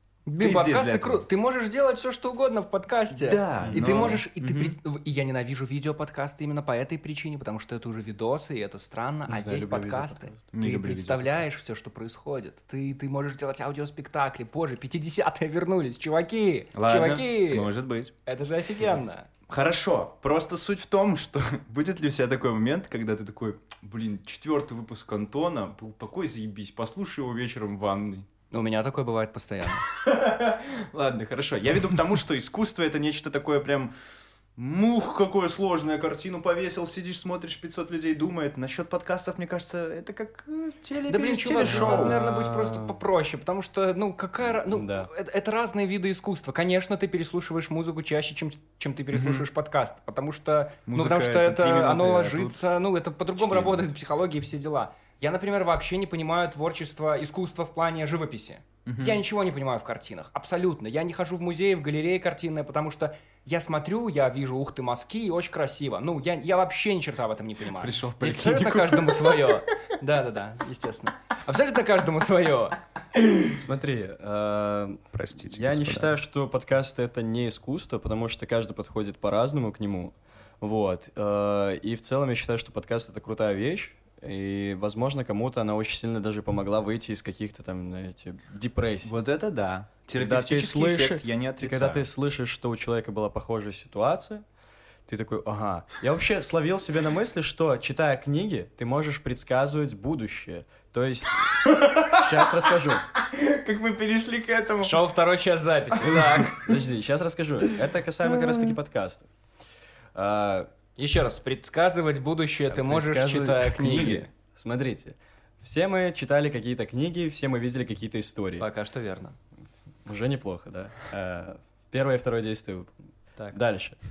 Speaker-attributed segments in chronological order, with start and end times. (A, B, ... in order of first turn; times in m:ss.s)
0:00.2-0:17.7 A
0:00.4-0:01.2 B
0:03.1-0:04.8 B
0:03.6-0:04.2 C
0:09.3-0:10.3 C
0:10.5-0:11.4 B
0:16.7-0:18.1 B
0:18.2-0:19.3 A
0:19.5-0:28.3 B
0:28.5-0:29.8 A
0:30.0-0:33.9 B
0:34.6-0:42.2 B
0:41.1-1:12.8 A
0:41.6-0:43.0 C
0:44.4-0:45.1 C
0:49.1-0:49.4 B
0:50.9-0:52.6 B
0:58.8-0:59.2 B
1:07.8-1:09.5 B
1:13.5-1:29.2 C
1:15.1-1:16.1 B
1:29.0-1:32.0 B
1:30.2-1:34.4 C
1:35.1-1:43.0 C
1:41.6-1:42.3 B
1:43.3-1:45.0 B
1:44.8-1:46.7 A
1:46.0-1:49.3 C
1:48.4-1:48.7 B
1:50.1-1:50.7 C
1:51.0-1:54.2 A
1:52.7-1:58.6 C
1:53.8-1:54.3 B
1:58.6-1:59.4 A
2:00.0-2:02.9 C
2:03.5-2:04.0 C